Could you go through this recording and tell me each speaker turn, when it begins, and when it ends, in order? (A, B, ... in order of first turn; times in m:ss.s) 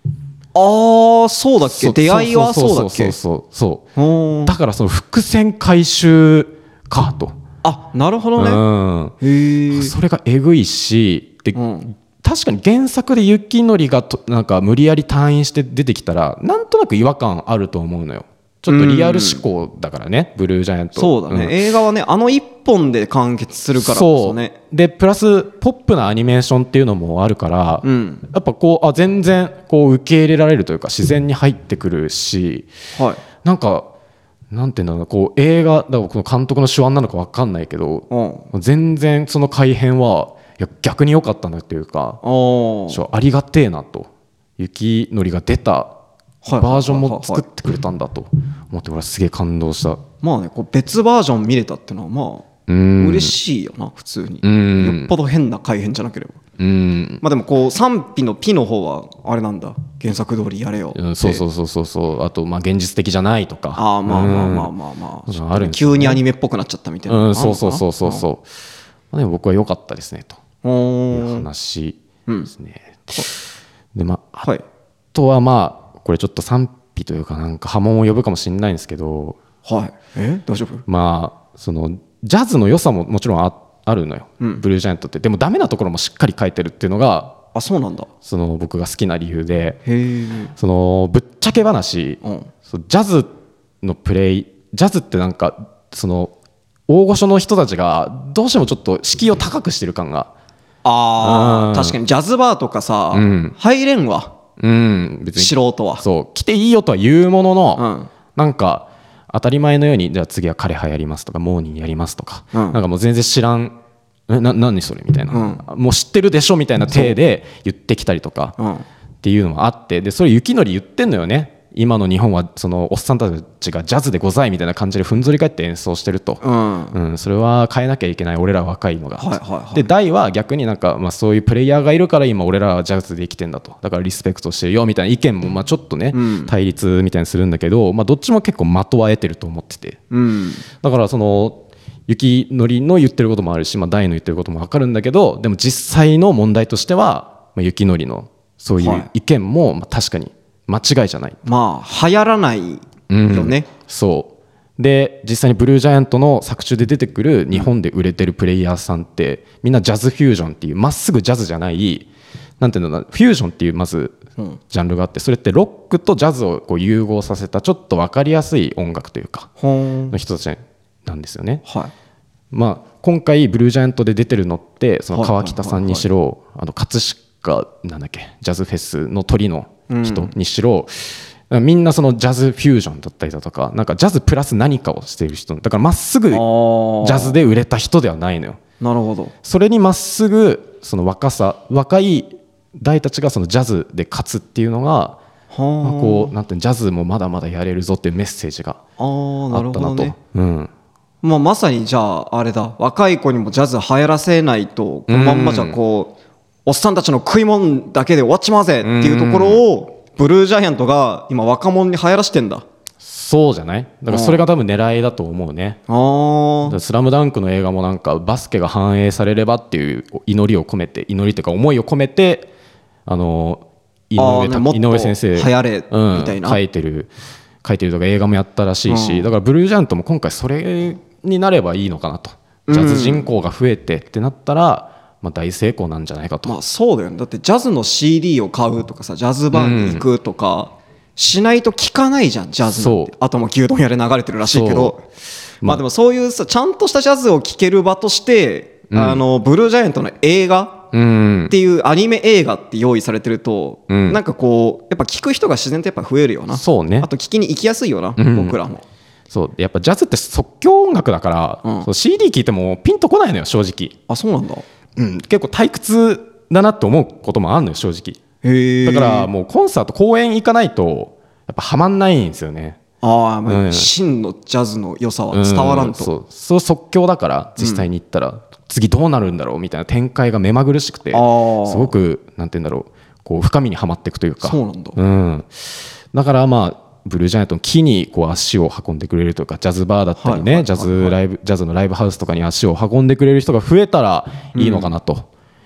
0:00.6-0:03.2 A
0:01.7-0:03.8 B
0:04.0-0:04.5 A
0:04.4-0:07.4 B
0:07.6-0:08.6 A
0:08.4-0:09.2 B
0:09.2-0:09.9 A
0:09.7-0:11.6 B
0:11.5-0:11.9 A
0:12.2-0:21.6 B
0:18.7-0:19.4 A
0:21.0-0:24.5 A
0:23.8-0:32.7 B
0:27.8-0:28.2 A
0:33.0-0:33.2 A
0:33.4-0:33.9 B
0:34.5-0:42.2 B
0:38.1-0:38.5 A
0:42.2-0:43.0 A
0:42.9-0:45.9 B
0:46.4-0:47.4 A
0:46.6-0:50.0 B
0:50.2-0:56.4 A
0:52.7-0:53.4 B
0:54.4-0:55.1 B
0:56.6-0:57.2 B
0:57.2-1:01.4 A
1:01.0-1:04.7 B
1:03.8-1:08.2 A
1:05.3-1:06.2 B
1:07.1-1:08.5 B
1:09.1-1:10.4 B
1:10.6-1:11.5 A
1:11.1-1:12.0 B
1:12.5-1:13.4 B
1:14.0-1:14.5 B
1:15.1-1:19.4 B
1:19.6-1:20.8 A
1:20.9-1:27.4 B
1:27.5-1:28.1 A
1:28.2-1:29.8 B
1:29.9-1:30.5 A
1:30.6-1:36.3 B
1:32.2-1:32.5 A
1:36.9-1:40.3 B
1:40.8-1:44.3 A
1:41.2-1:42.0 B
1:43.1-1:43.6 B
1:44.6-1:47.8 B
1:45.4-1:46.0 A
1:47.8-1:48.1 A
1:48.4-1:53.8 B
1:52.5-1:52.8 A
1:54.3-1:58.6 B
1:55.3-1:55.6 A
1:56.9-1:57.2 A
1:58.6-1:58.9 A
1:59.2-2:06.4 B
2:06.4-2:07.0 A
2:06.9-2:20.0 B
2:09.2-2:09.9 A
2:16.1-2:16.5 A
2:20.1-2:20.7 A
2:20.8-2:31.4 B
2:28.8-2:29.1 A
2:31.4-2:33.7 A
2:33.1-2:42.1 B
2:42.6-2:49.5 B
2:49.6-2:50.1 A
2:50.1-2:51.6 B
2:51.6-2:51.9 A
2:52.5-3:06.5 B
2:55.1-2:56.0 A
2:59.9-3:00.3 A
3:06.3-3:07.4 A
3:07.0-3:08.6 B
3:08.8-3:09.3 A
3:09.4-3:15.2 B
3:15.5-3:16.3 A
3:15.8-3:18.8 B
3:19.0-3:20.2 A
3:19.5-3:20.7 B
3:21.2-3:26.1 A
3:25.1-3:25.8 B
3:26.7-3:32.6 A
3:28.8-3:29.6 B
3:33.0-3:35.8 B
3:34.1-3:34.4 A
3:35.9-3:36.8 A
3:36.7-3:42.5 B
3:43.1-3:47.1 B
3:44.2-3:46.6 A
3:47.6-3:56.6 B
3:48.9-3:49.3 A
3:52.7-3:53.3 A
3:56.5-4:05.0 A
3:59.5-4:00.1 B
4:02.7-4:03.1 B
4:04.5-4:05.0 B
4:05.6-4:10.9 A
4:08.9-4:09.2 B
4:10.9-4:11.5 B
4:11.5-4:18.8 A
4:13.9-4:14.2 B
4:16.5-4:17.1 B
4:18.2-4:18.6 B
4:19.3-4:24.0 B
4:21.6-4:21.9 A
4:24.1-4:24.6 A
4:25.0-4:28.2 B
4:28.4-4:29.3 A
4:28.8-4:32.8 B
4:33.0-4:36.1 A
4:33.5-4:33.9 B
4:35.3-4:55.3 B
4:37.6-4:37.8 A
4:41.1-4:41.9 A
4:44.4-4:45.0 A
4:50.2-4:51.2 A
4:54.5-4:54.9 A